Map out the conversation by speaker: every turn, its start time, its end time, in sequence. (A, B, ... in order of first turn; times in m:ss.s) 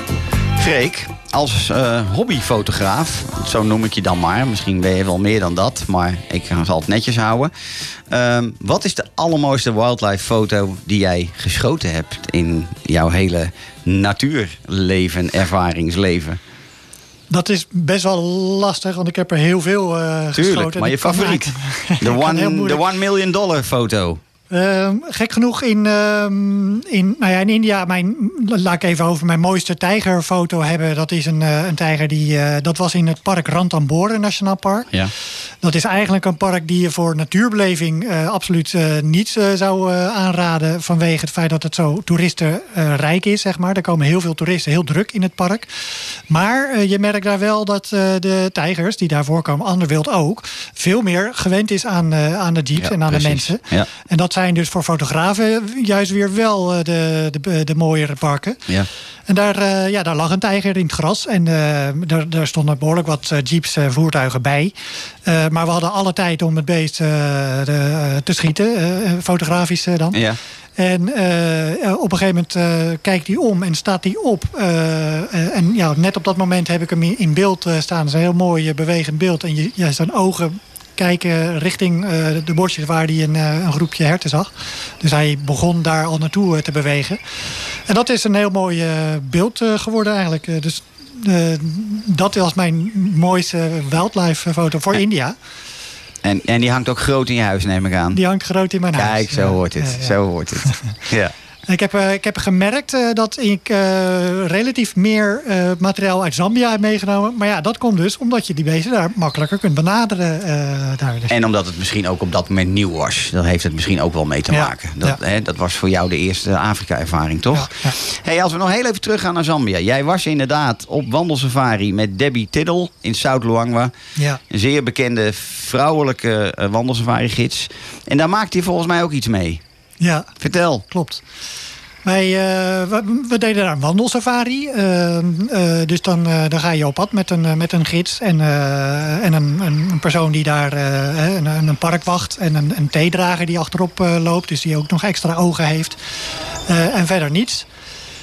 0:00.6-0:07.5 A
0:08.1-0:16.4 A
0:17.3-0:22.8 B
0:20.3-0:24.2 A
0:24.5-0:34.9 B
0:35.6-0:45.7 B
0:46.3-0:58.6 B
0:52.8-0:53.9 A
0:59.3-1:04.7 B
1:05.2-1:10.2 B
1:10.1-1:10.4 A
1:10.8-1:27.2 B
1:27.9-1:35.3 B
1:36.2-1:38.2 A
1:38.1-1:40.8 B
1:38.9-1:41.3 A
1:41.7-1:51.3 B
1:51.3-2:03.9 A
1:54.5-1:55.2 B
1:57.5-1:58.0 B
2:04.5-2:09.6 A
2:10.0-2:10.3 B
2:10.4-2:10.8 A
2:10.9-2:11.2 B
2:12.0-2:26.0 B
2:26.7-2:27.6 B